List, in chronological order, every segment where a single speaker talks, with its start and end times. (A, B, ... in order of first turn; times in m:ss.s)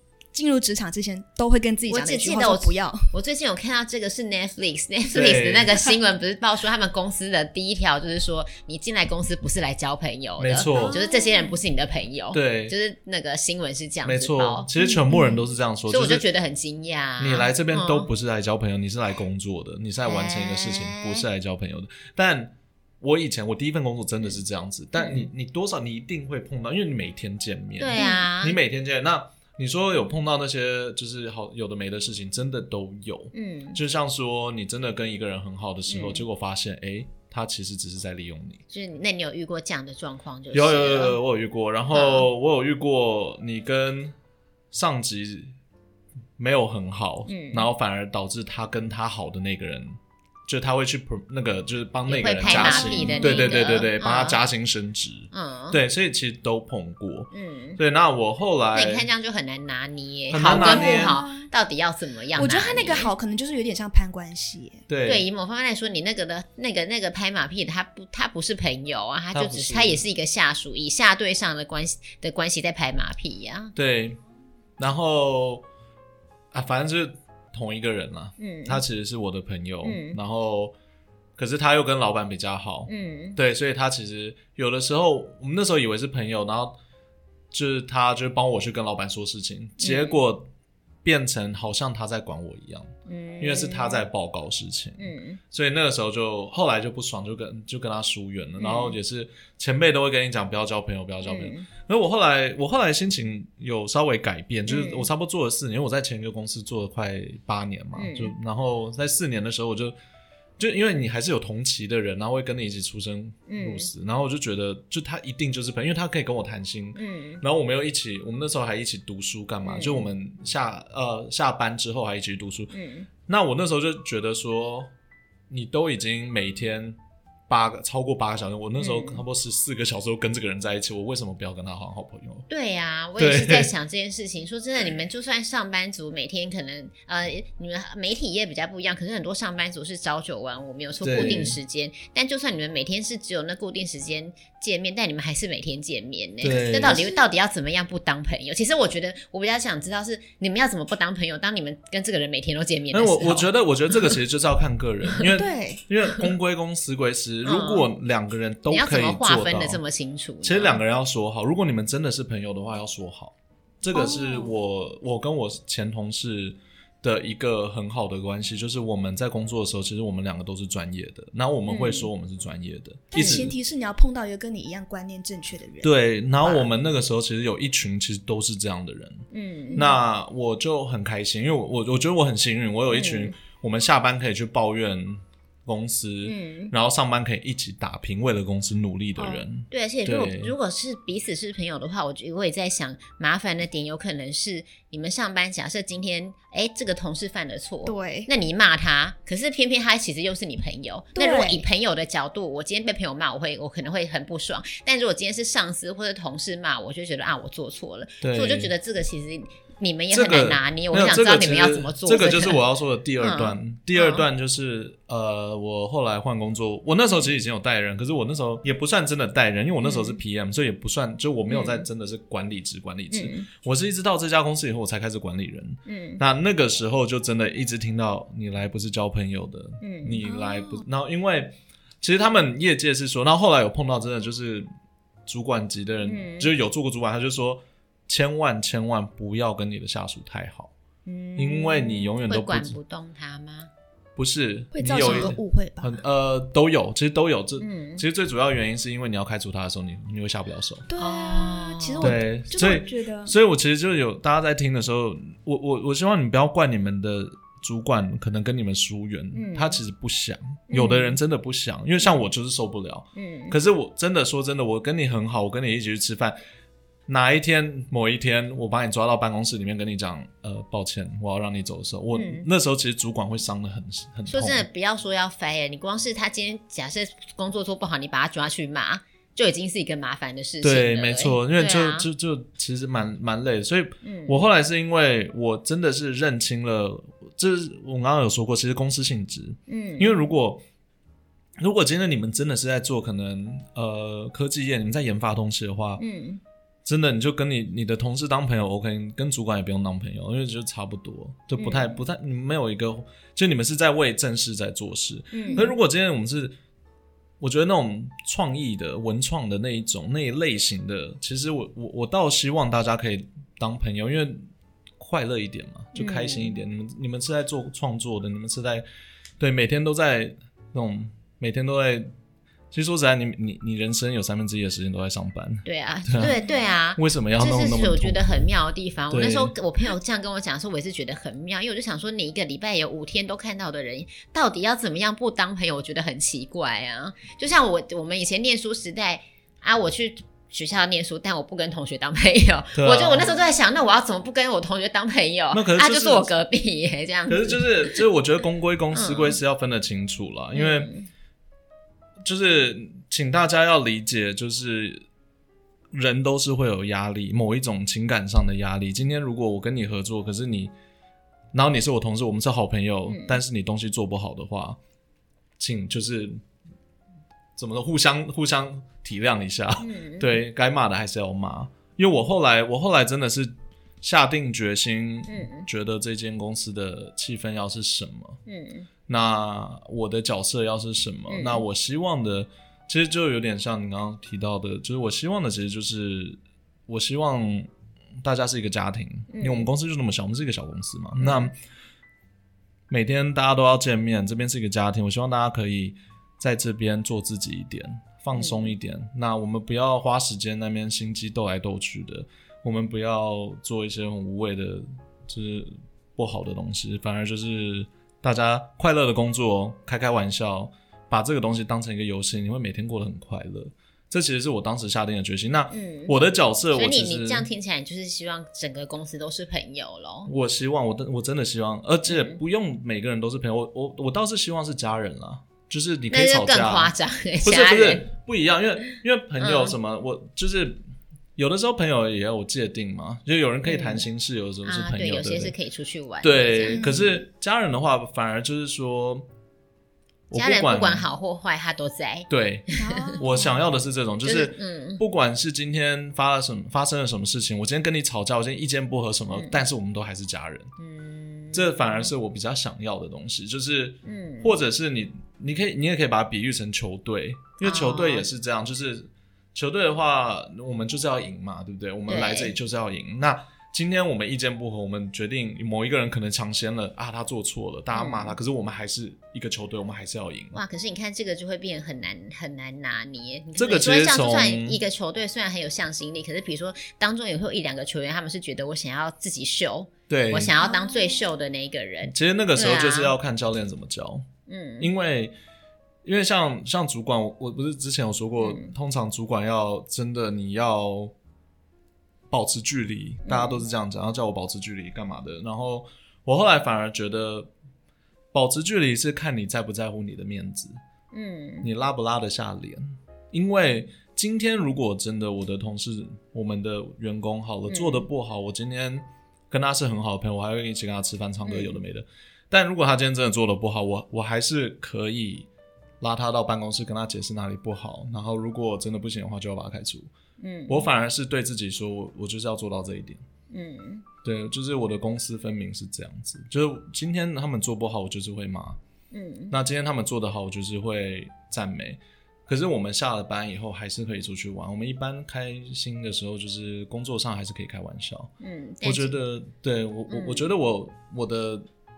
0:00.3-0:03.1 A
0:01.9-0:14.7 B
0:05.1-0:05.9 C
0:10.4-0:11.0 C
0:10.7-0:11.6 A
0:12.3-0:12.7 C
0:14.0-0:16.2 C
0:14.8-0:15.4 A
0:15.9-0:18.1 B
0:17.2-0:38.6 C
0:20.0-0:21.2 B
0:25.0-0:25.2 B
0:27.8-0:28.6 B
0:28.0-0:28.2 A
0:33.3-0:33.8 B
0:35.9-0:36.2 B
0:38.7-0:41.2 B
0:40.5-0:44.1 C
0:41.9-0:42.3 B
0:44.7-0:45.5 C
0:46.4-0:59.1 C
0:47.3-0:47.7 B
0:52.1-0:54.4 B
0:52.4-0:53.7 A
0:55.3-0:55.8 B
0:57.3-0:57.8 B
0:58.7-1:03.1 B
1:00.3-1:01.2 C
1:00.4-1:01.5 A
1:02.3-1:04.8 A
1:04.9-1:05.2 C
1:05.0-1:13.7 B
1:09.3-1:10.0 C
1:13.7-1:14.2 C
1:14.8-1:15.6 C
1:16.5-1:20.7 C
1:18.4-1:18.8 B
1:19.8-1:20.2 B
1:21.4-1:26.8 C
1:22.9-1:23.4 B
1:27.5-1:30.5 C
1:29.8-1:30.2 B
1:31.0-1:50.0 C
1:33.0-1:34.0 B
1:35.0-1:35.4 B
1:38.6-1:39.0 B
1:41.2-1:41.7 B
1:44.7-1:45.1 B
1:48.0-1:48.3 B
1:50.6-2:02.7 C
1:53.5-1:53.9 B
1:56.9-1:57.4 B
1:59.6-2:00.0 B
2:02.7-2:03.1 B
2:03.2-2:04.9 C
2:05.5-2:07.0 C
2:07.5-2:12.4 C
2:08.8-2:09.2 B
2:12.5-2:34.1 B
2:13.2-2:13.7 C
2:21.0-2:21.6 C
2:26.4-2:27.0 C
2:26.8-2:27.2 A
2:32.9-2:39.8 C
2:35.3-2:35.8 A
2:37.4-2:37.9 B
2:38.7-2:40.8 B
2:40.4-2:53.6 C
2:43.9-2:44.5 A
2:51.7-2:52.1 B
2:53.1-2:55.9 A
2:53.2-2:53.5 B
2:55.8-2:59.2 C
2:59.3-2:59.8 B
2:59.8-3:10.5 C
3:02.9-3:03.3 B
3:06.2-3:06.7 B
3:09.7-3:32.6 B
3:17.8-3:18.3 A
3:21.1-3:21.6 A
3:28.2-3:28.7 C
3:30.1-3:54.7 C
3:33.2-3:34.2 B
3:39.8-3:40.2 B
3:41.5-3:41.8 B
3:43.1-3:43.5 B
3:45.8-3:46.2 B
3:49.8-3:50.2 B
3:50.2-3:50.8 A
3:55.2-4:00.7 C
3:56.0-3:56.5 B
4:01.0-4:03.7 B
4:01.4-4:02.8 C
4:04.2-4:10.8 C
4:04.7-4:06.0 A
4:04.9-4:05.3 B
4:07.6-4:08.0 B
4:10.9-4:13.3 A
4:11.0-4:12.1 B
4:12.0-4:26.4 C
4:19.3-4:19.8 B
4:20.7-4:21.2 B
4:23.1-4:23.6 B
4:27.1-4:34.6 C
4:32.1-4:32.5 B
4:34.3-4:42.1 B
4:40.6-4:50.6 C
4:44.0-4:44.4 B
4:49.7-4:50.1 B
4:51.6-4:56.0 C
4:56.0-4:56.4 B
4:56.8-5:06.6 C
5:01.6-5:02.0 B
5:05.3-5:05.7 B
5:05.4-5:05.7 A
5:07.4-5:14.4 C
5:15.0-5:18.8 C
5:15.9-5:16.6 B
5:19.4-5:22.1 C
5:22.7-5:26.4 C
5:25.6-5:48.0 B
5:27.0-5:28.4 C
5:29.1-5:29.5 C
5:42.7-5:43.4 C
5:45.5-5:46.3 C
5:47.3-5:50.9 C
5:48.9-5:49.4 B
5:50.5-5:51.1 B
5:52.2-5:55.0 C
5:55.9-6:00.7 C
6:01.5-6:04.8 C
6:03.1-6:03.4 B
6:05.6-6:06.4 C
6:07.6-6:18.4 C
6:09.8-6:10.4 B
6:15.3-6:15.7 B
6:18.4-6:18.9 B
6:19.1-6:27.7 C
6:21.3-6:21.6 B
6:28.2-6:31.5 C
6:29.3-6:29.7 B
6:31.2-6:31.5 B
6:32.9-6:57.5 C
6:38.3-6:38.7 B
6:55.7-6:56.1 B
6:56.7-7:00.3 B
7:00.3-7:10.8 C
7:02.1-7:02.4 B
7:06.1-7:08.1 B
7:09.4-7:09.7 B
7:11.4-7:15.5 C
7:13.6-7:14.0 B
7:14.6-7:16.8 B
7:16.2-7:19.2 C
7:16.7-7:17.2 A
7:20.3-7:21.1 C
7:20.3-7:23.2 B
7:22.3-7:30.7 C
7:22.8-7:23.6 A
7:24.2-7:25.0 B
7:29.3-7:29.6 B
7:30.8-7:32.1 B
7:31.5-7:50.6 C
7:34.0-7:34.5 B
7:37.6-7:38.2 B
7:42.1-7:42.5 B
7:47.9-7:48.4 B
7:50.5-8:03.1 B
7:53.6-7:54.8 C
8:00.1-8:00.5 C
8:00.6-8:01.2 A
8:02.1-8:04.2 C
8:04.5-8:04.9 B
8:04.8-8:05.3 C
8:06.0-8:11.1 C
8:08.4-8:08.7 B
8:12.3-8:17.5 C
8:13.2-8:13.6 B
8:18.3-8:20.8 C
8:21.1-8:21.7 B
8:21.6-8:35.5 C
8:27.7-8:28.1 B
8:31.4-8:31.8 B
8:36.0-8:40.1 C
8:40.4-8:40.9 B
8:40.7-8:43.2 C
8:43.5-8:44.0 B
8:44.2-8:48.8 C
8:49.1-8:49.6 B
8:49.5-9:01.7 C
8:58.4-8:59.2 B
9:00.1-9:00.5 B